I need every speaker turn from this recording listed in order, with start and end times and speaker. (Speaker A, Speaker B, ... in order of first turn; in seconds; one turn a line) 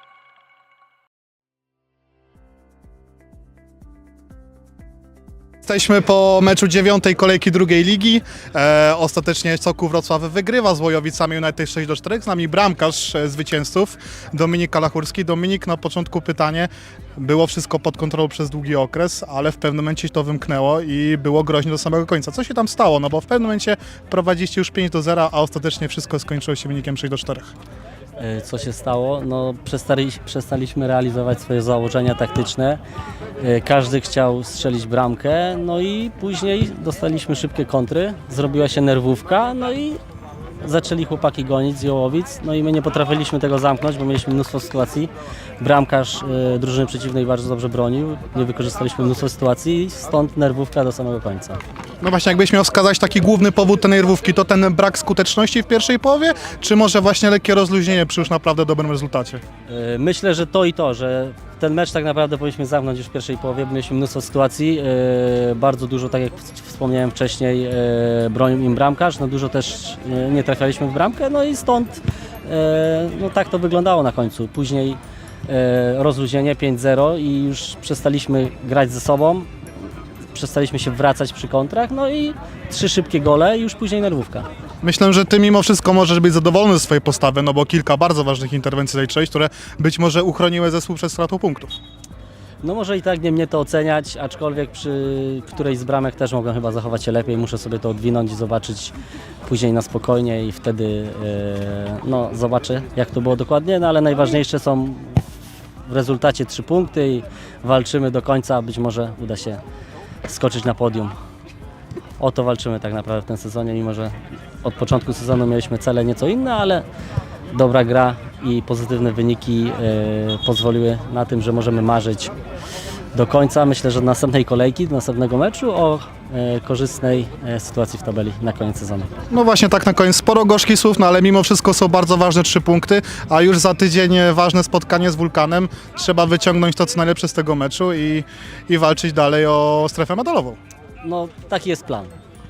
Speaker A: 5.6-27.5
Speaker B: 28.2-32.8
Speaker B: 33.4-40.0
Speaker B: 40.6-51.6
Speaker A: 52.0-59.4
Speaker B: 59.7-79.5
Speaker B: 80.3-84.5
Speaker A: 84.8-91.8
Speaker B: 92.6-105.3
Speaker B: 105.8-109.6
Speaker B: 110.2-111.1
Speaker B: 112.2-116.9
Speaker B: 117.5-122.3
Speaker B: 123.1-129.1
Speaker A: 129.3-140.6
Speaker B: 141.0-142.1